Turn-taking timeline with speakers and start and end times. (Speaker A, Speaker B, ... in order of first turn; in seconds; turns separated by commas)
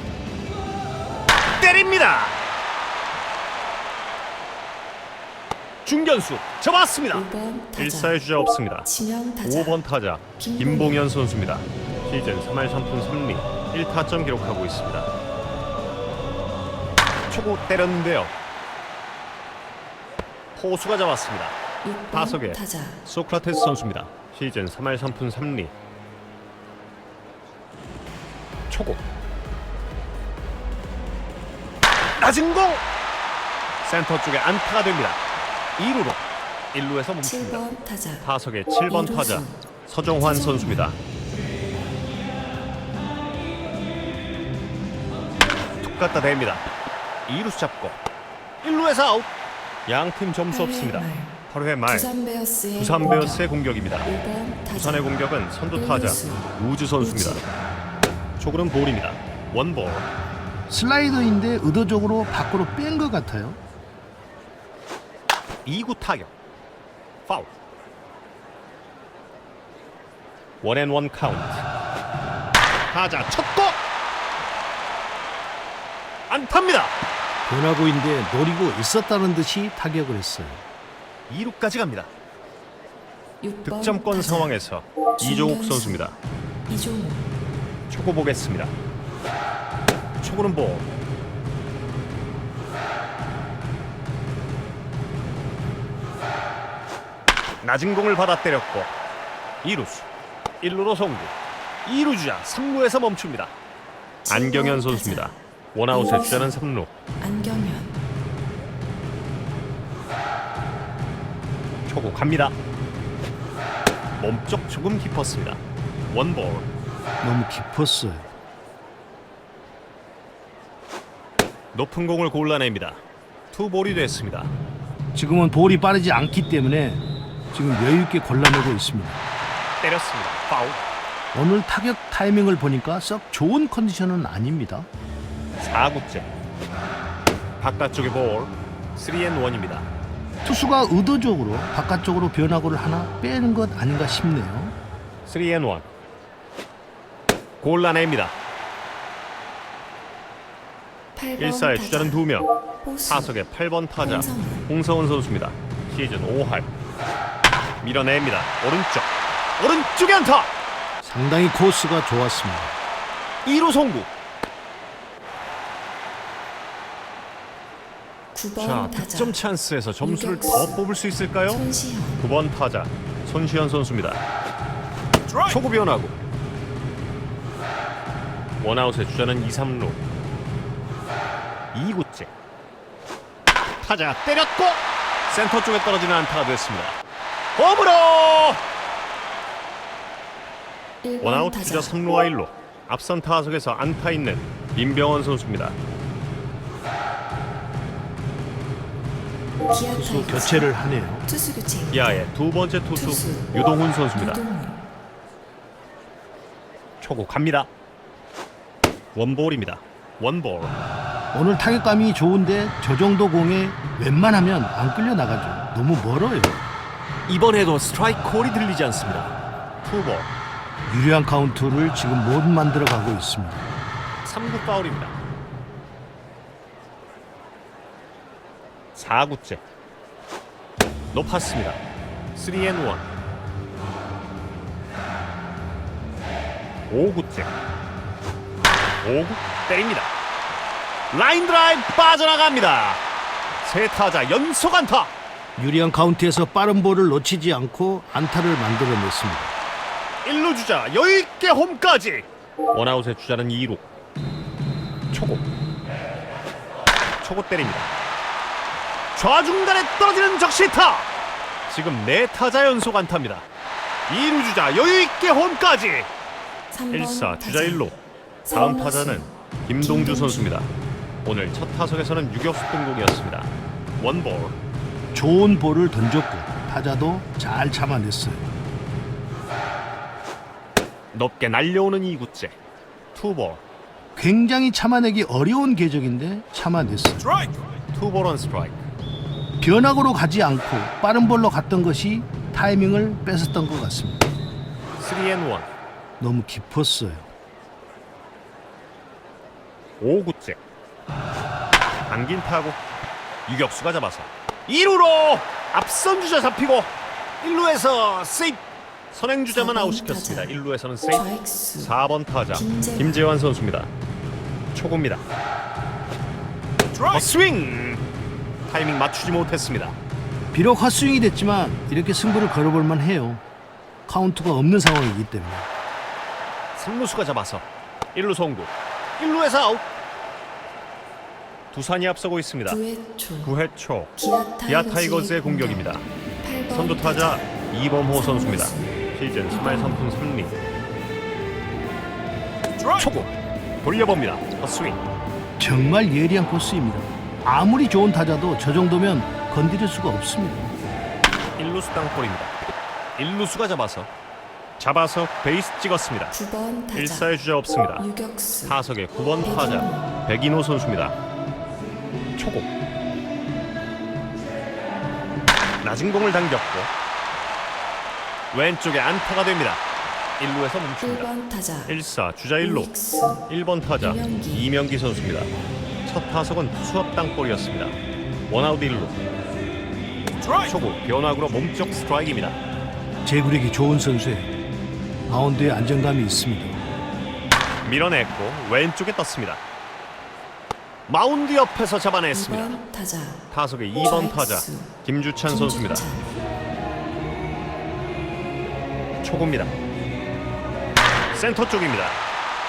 Speaker A: 1.6-2.4, Speaker A: 5.8-8.9, Speaker B: 7.1-8.1, Speaker B: 8.8-9.8, Speaker A: 9.4-15.1, Speaker B: 10.4-11.0, Speaker A: 17.3-18.3, Speaker A: 20.6-21.6, Speaker B: 21.8-23.0, Speaker A: 22.1-25.7, Speaker A: 28.7-29.0, Speaker A: 32.2-32.8, Speaker A: 33.8-35.2, Speaker A: 35.8-37.6, Speaker B: 37.2-38.2, Speaker A: 38.2-41.0, Speaker B: 38.9-39.5, Speaker B: 40.2-40.9, Speaker A: 45.8-46.6, Speaker A: 47.3-48.0, Speaker A: 48.6-49.3, Speaker A: 49.9-52.1, Speaker B: 50.5-51.3, Speaker B: 51.9-53.5, Speaker A: 52.8-54.1, Speaker B: 54.0-55.1, Speaker A: 54.7-57.4, Speaker B: 55.7-56.5, Speaker B: 57.0-57.4, Speaker A: 58.4-60.1, Speaker C: 60.7-63.6, Speaker A: 65.6-66.3, Speaker A: 70.6-71.6, Speaker A: 72.9-73.8, Speaker A: 76.3-76.9, Speaker C: 77.5-80.6, Speaker A: 81.3-82.1, Speaker B: 83.4-84.5, Speaker A: 83.6-86.2, Speaker B: 85.2-86.1, Speaker B: 86.7-87.3, Speaker A: 87.9-88.7, Speaker A: 90.2-90.9, Speaker A: 97.6-98.9, Speaker A: 99.6-100.1, Speaker A: 100.6-101.3, Speaker A: 101.8-103.5, Speaker B: 104.2-105.3, Speaker A: 104.3-106.9, Speaker B: 105.9-106.5, Speaker B: 107.2-108.0, Speaker A: 111.9-112.5, Speaker A: 114.2-116.7, Speaker C: 117.2-118.3, Speaker A: 121.7-124.5, Speaker C: 125.1-129.2, Speaker A: 129.8-130.8, Speaker C: 131.3-134.9, Speaker A: 135.6-136.3, Speaker A: 137.6-139.9, Speaker C: 140.4-144.7, Speaker A: 145.2-145.8, Speaker A: 147.6-148.3, Speaker B: 151.2-152.2, Speaker A: 151.4-152.5, Speaker B: 152.8-153.3, Speaker A: 153.1-156.7, Speaker B: 154.0-154.7, Speaker A: 157.8-160.5, Speaker C: 161.0-162.7, Speaker A: 163.4-164.1, Speaker B: 168.3-169.3, Speaker A: 168.6-171.6, Speaker B: 170.0-170.8, Speaker B: 171.4-172.2, Speaker A: 172.2-174.2, Speaker A: 175.4-176.2, Speaker A: 178.6-180.0, Speaker A: 181.7-182.3, Speaker A: 183.8-187.0, Speaker A: 187.6-188.6, Speaker B: 191.0-192.0, Speaker A: 191.2-195.8, Speaker B: 199.7-200.7, Speaker C: 199.9-201.3, Speaker B: 201.2-202.3, Speaker A: 201.9-204.4, Speaker B: 202.9-203.5, Speaker B: 204.1-204.8, Speaker A: 207.0-207.7, Speaker A: 209.1-210.7, Speaker C: 211.3-216.6, Speaker A: 217.3-220.3, Speaker C: 220.9-223.6, Speaker A: 224.2-225.2, Speaker A: 228.9-229.6, Speaker A: 231.1-231.8, Speaker A: 232.3-233.1, Speaker A: 236.9-237.5, Speaker A: 239.0-240.1, Speaker A: 241.1-243.0, Speaker A: 243.6-245.1, Speaker C: 245.6-249.5, Speaker A: 250.2-253.8, Speaker A: 255.1-255.4, Speaker A: 257.2-257.9, Speaker A: 259.1-261.1, Speaker A: 261.7-263.4, Speaker A: 264.1-266.1, Speaker B: 266.7-267.9, Speaker A: 266.9-267.9, Speaker B: 268.4-270.5, Speaker A: 268.5-270.7, Speaker A: 271.2-274.6, Speaker C: 275.1-278.5, Speaker A: 281.1-282.6, Speaker A: 283.1-283.6, Speaker C: 284.1-287.2, Speaker A: 287.9-288.9, Speaker C: 289.6-294.2, Speaker A: 295.0-295.7, Speaker C: 296.2-297.3, Speaker A: 300.0-300.6, Speaker A: 302.1-302.8, Speaker A: 303.4-313.9, Speaker B: 309.5-310.5, Speaker B: 311.1-311.9, Speaker B: 312.5-313.2, Speaker A: 314.7-315.2, Speaker A: 317.0-318.0, Speaker A: 318.7-319.9, Speaker C: 320.5-323.4, Speaker C: 324.1-325.7, Speaker A: 326.8-329.8, Speaker A: 331.7-332.8, Speaker B: 332.7-333.5, Speaker A: 333.4-334.1, Speaker B: 334.2-335.9, Speaker A: 334.6-336.1, Speaker B: 336.4-337.4, Speaker A: 336.7-340.6, Speaker B: 338.1-338.9, Speaker B: 339.5-340.1, Speaker A: 342.9-343.3, Speaker A: 343.8-345.0, Speaker C: 345.6-350.7, Speaker A: 351.6-352.5, Speaker A: 353.2-354.1, Speaker A: 354.8-356.4, Speaker B: 356.3-357.3, Speaker A: 356.9-358.1, Speaker B: 358.0-358.7, Speaker A: 358.6-361.1, Speaker B: 359.4-360.0, Speaker A: 362.4-362.7, Speaker A: 365.8-366.9, Speaker A: 368.5-369.8, Speaker A: 370.4-371.3, Speaker B: 371.0-371.9, Speaker A: 371.9-372.9, Speaker B: 372.6-373.4, Speaker A: 373.5-375.5, Speaker B: 374.0-374.7, Speaker A: 376.0-377.9, Speaker A: 378.5-379.2, Speaker A: 380.6-382.6, Speaker C: 383.2-384.5, Speaker C: 385.3-386.8, Speaker A: 387.8-389.6, Speaker A: 391.1-392.8, Speaker B: 392.3-393.4, Speaker A: 393.5-396.1, Speaker B: 394.0-394.9, Speaker B: 395.4-396.2, Speaker A: 399.2-399.7, Speaker A: 401.3-402.2